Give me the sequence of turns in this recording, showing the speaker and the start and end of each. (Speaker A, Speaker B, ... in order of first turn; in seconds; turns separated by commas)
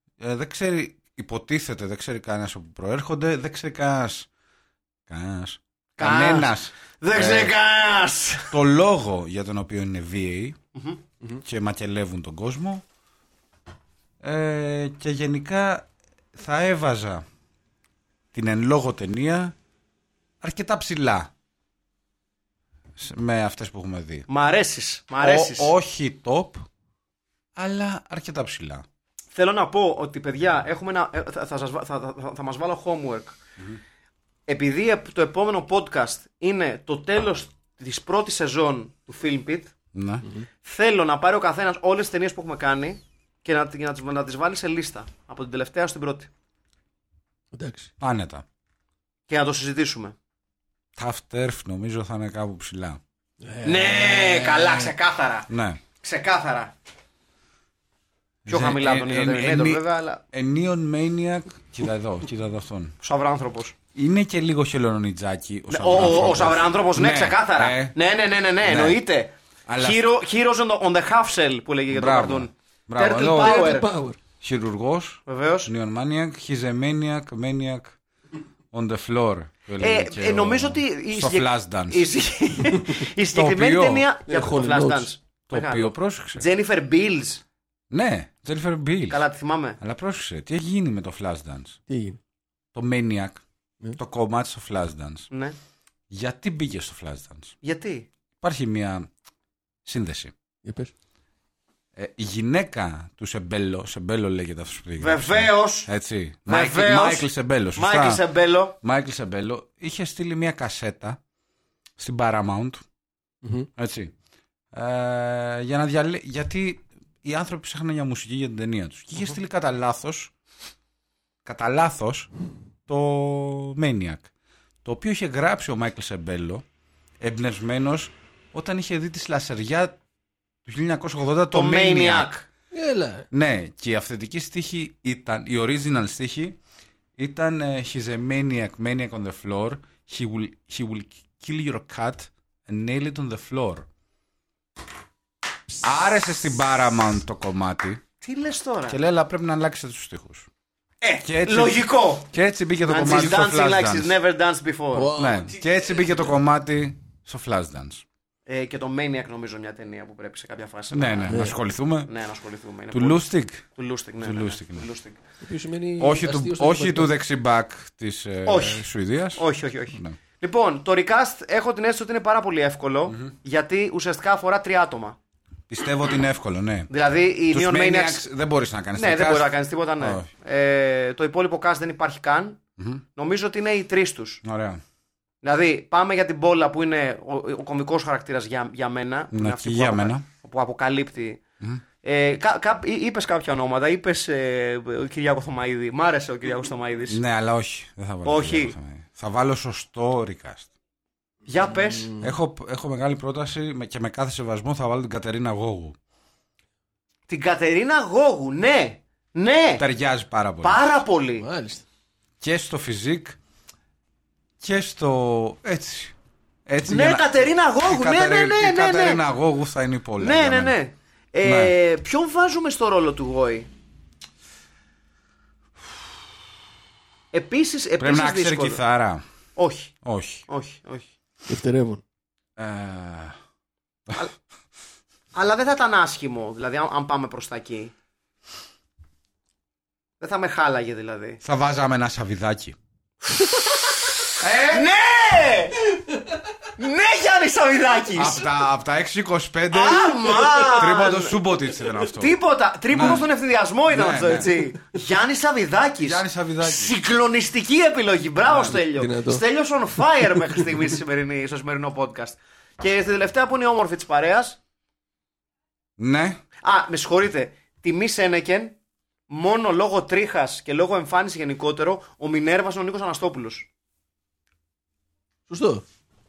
Speaker A: 0.2-4.3, Speaker A: 5.1-7.5, Speaker B: 6.0-8.5, Speaker A: 8.5-10.6, Speaker B: 10.8-11.0, Speaker A: 11.4-12.8, Speaker A: 14.2-17.2, Speaker A: 18.3-19.5, Speaker A: 20.4-21.3, Speaker A: 23.0-24.3, Speaker B: 24.3-25.7, Speaker A: 25.2-26.7, Speaker A: 27.6-28.9, Speaker B: 29.3-33.4, Speaker B: 34.5-39.7, Speaker A: 39.9-40.3, Speaker B: 40.6-46.3, Speaker C: 47.5-47.9, Speaker A: 48.0-48.4, Speaker B: 49.3-50.1, Speaker A: 51.0-53.0, Speaker C: 53.4-54.9, Speaker B: 53.6-55.5, Speaker A: 55.5-55.8, Speaker B: 56.0-56.7, Speaker A: 58.5-63.0, Speaker B: 58.5-60.2, Speaker B: 63.0-63.8, Speaker A: 64.0-68.0, Speaker B: 65.7-73.9, Speaker A: 68.6-69.0, Speaker A: 69.7-70.1, Speaker A: 71.9-73.7, Speaker C: 73.2-74.2, Speaker A: 74.4-78.0, Speaker B: 75.3-75.7, Speaker A: 78.7-82.1, Speaker B: 79.8-87.4, Speaker A: 83.3-84.1, Speaker C: 84.3-85.1, Speaker A: 85.5-86.5, Speaker A: 87.9-89.2, Speaker B: 89.1-89.8, Speaker A: 89.8-91.8, Speaker C: 91.9-92.2, Speaker A: 92.7-93.4, Speaker A: 94.0-95.3, Speaker B: 95.3-95.6, Speaker A: 96.1-97.5, Speaker B: 97.6-98.1, Speaker A: 98.4-99.1, Speaker A: 99.8-100.3, Speaker C: 100.6-100.9, Speaker A: 102.0-108.2, Speaker B: 105.0-105.9, Speaker B: 106.5-108.8, Speaker A: 108.8-111.2, Speaker A: 112.0-112.8, Speaker C: 113.4-113.7, Speaker A: 113.8-114.1, Speaker A: 114.7-120.3, Speaker A: 121.5-122.3, Speaker A: 122.9-124.3, Speaker A: 124.8-126.6, Speaker A: 127.2-130.0, Speaker A: 130.7-132.3, Speaker B: 131.5-132.5, Speaker C: 132.7-133.3, Speaker A: 133.3-136.6, Speaker A: 137.2-143.9, Speaker A: 145.8-148.0, Speaker B: 148.2-149.0, Speaker A: 148.9-150.5, Speaker B: 151.0-152.3, Speaker A: 151.2-154.2, Speaker B: 152.8-155.1, Speaker C: 154.9-156.4, Speaker A: 155.2-158.1, Speaker B: 158.5-161.4, Speaker A: 160.9-162.1, Speaker C: 161.3-161.6, Speaker B: 162.1-163.2, Speaker A: 162.9-163.7, Speaker B: 163.8-165.2, Speaker A: 164.2-164.9, Speaker C: 165.4-167.1, Speaker A: 166.0-170.2, Speaker B: 168.5-175.2, Speaker A: 173.1-173.3, Speaker A: 175.7-176.9, Speaker B: 176.9-178.2, Speaker A: 177.5-180.3, Speaker B: 179.0-182.6, Speaker B: 183.2-184.4, Speaker A: 184.4-184.8, Speaker B: 185.4-191.4, Speaker A: 189.3-190.3, Speaker B: 192.0-197.2, Speaker A: 197.1-200.7, Speaker B: 198.2-198.7, Speaker B: 201.5-202.1, Speaker C: 201.6-202.3, Speaker A: 202.2-206.0, Speaker B: 207.3-209.8, Speaker A: 209.8-211.0, Speaker B: 210.6-211.5, Speaker C: 211.4-211.8, Speaker A: 212.4-213.4, Speaker A: 214.6-216.2, Speaker A: 216.7-220.8, Speaker B: 216.9-219.2, Speaker B: 220.2-223.7, Speaker A: 221.4-221.8, Speaker B: 227.3-228.8, Speaker A: 228.0-229.2, Speaker B: 229.6-229.9, Speaker A: 230.0-230.4, Speaker B: 230.5-231.1, Speaker C: 231.5-232.0, Speaker A: 232.6-233.4, Speaker B: 235.3-237.9, Speaker B: 240.2-241.4, Speaker A: 241.4-242.8, Speaker B: 243.2-245.8, Speaker A: 244.4-244.9, Speaker B: 246.8-248.5, Speaker A: 248.2-252.4, Speaker B: 249.7-251.4, Speaker B: 252.1-264.6, Speaker A: 252.9-253.3, Speaker A: 253.9-254.6, Speaker A: 256.0-256.9, Speaker A: 258.5-258.8, Speaker C: 258.5-259.4, Speaker C: 260.1-260.6, Speaker A: 266.0-266.4, Speaker B: 266.6-268.8, Speaker B: 269.3-273.7, Speaker C: 275.5-275.8